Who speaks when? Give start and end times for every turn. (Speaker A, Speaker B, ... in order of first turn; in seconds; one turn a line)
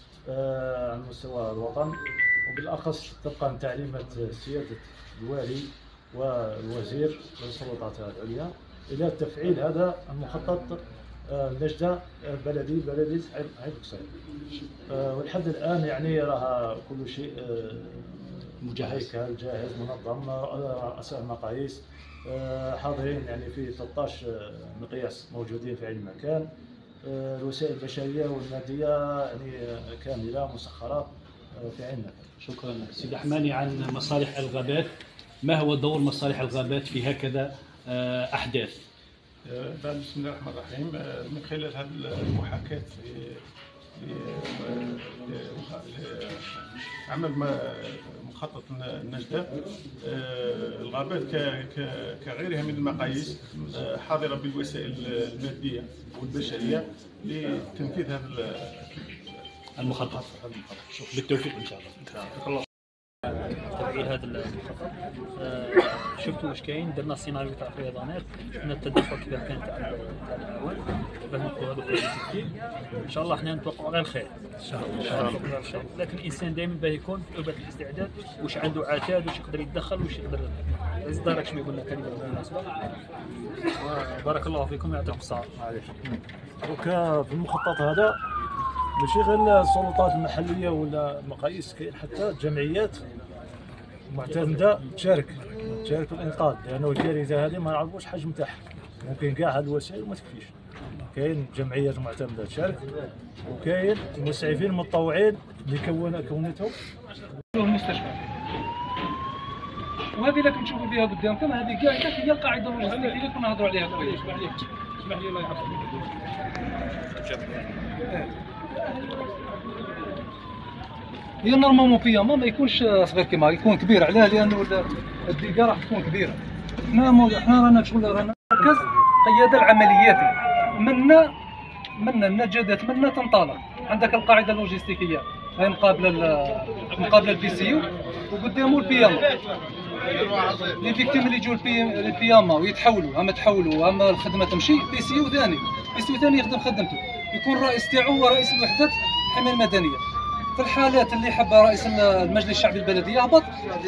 Speaker A: 0.3-14.1
Speaker A: 14.9-26.4
Speaker B: 18.6-19.1
Speaker A: 27.0-32.2
Speaker B: 32.4-34.9
Speaker B: 35.4-38.8
Speaker C: 39.5-43.4
Speaker C: 44.0-60.8
Speaker B: 59.8-60.2
Speaker B: 60.9-62.0
Speaker D: 62.0-62.6
Speaker D: 63.5-72.5
Speaker D: 73.0-82.8
Speaker A: 74.7-75.4
Speaker D: 83.7-85.5
Speaker A: 85.5-88.2
Speaker A: 89.0-93.0
Speaker A: 94.1-102.9
Speaker A: 103.5-106.8
Speaker E: 107.5-108.2
Speaker E: 110.2-114.5
Speaker E: 118.1-118.3
Speaker E: 121.4-126.4
Speaker E: 126.9-131.3
Speaker E: 132.0-139.3
Speaker E: 140.7-150.0
Speaker E: 150.6-153.5